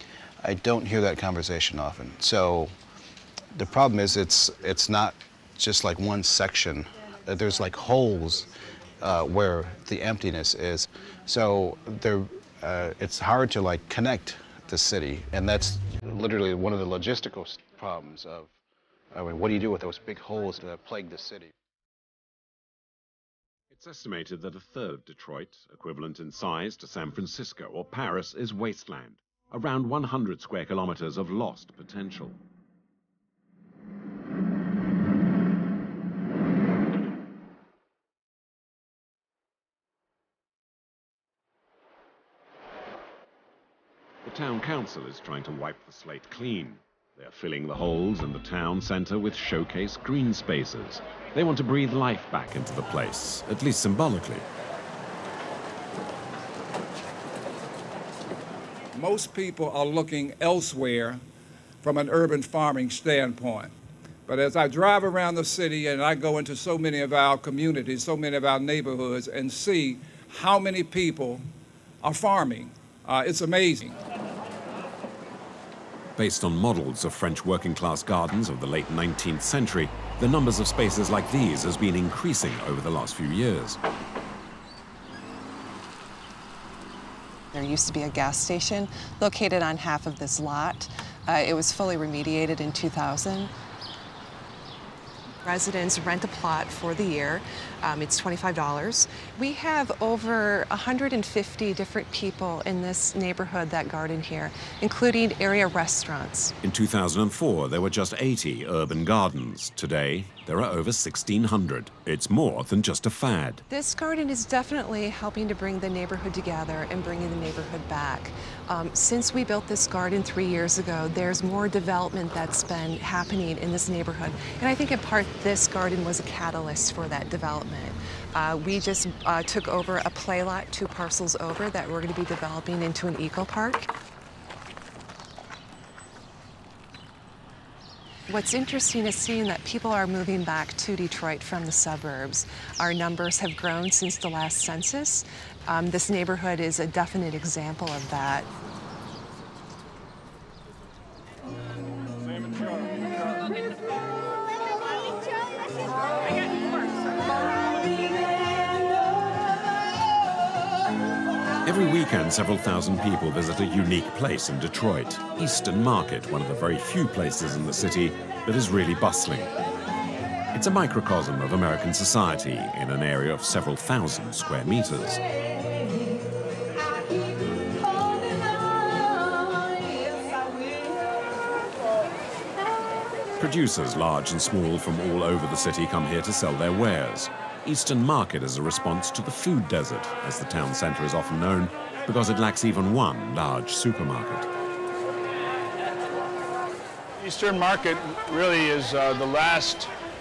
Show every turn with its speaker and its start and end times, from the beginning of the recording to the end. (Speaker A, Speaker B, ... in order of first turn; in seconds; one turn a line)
Speaker A: 0.4-2.8
Speaker A: 3.5-8.5
Speaker A: 9.0-18.5
Speaker A: 19.1-21.5
Speaker B: 23.7-32.4
Speaker B: 44.2-54.4
Speaker C: 59.0-61.1
Speaker C: 61.8-63.6
Speaker C: 64.3-71.4
Speaker C: 72.0-73.9
Speaker B: 76.2-83.8
Speaker D: 87.5-93.5
Speaker D: 95.4-106.5
Speaker B: 106.6-113.6
Speaker D: 113.7-133.8
Speaker D: 138.3-148.5
Speaker B: 161.6-169.5
Speaker B: 170.5-175.2
Speaker B: 183.4-194.5
Speaker E: 197.2-199.9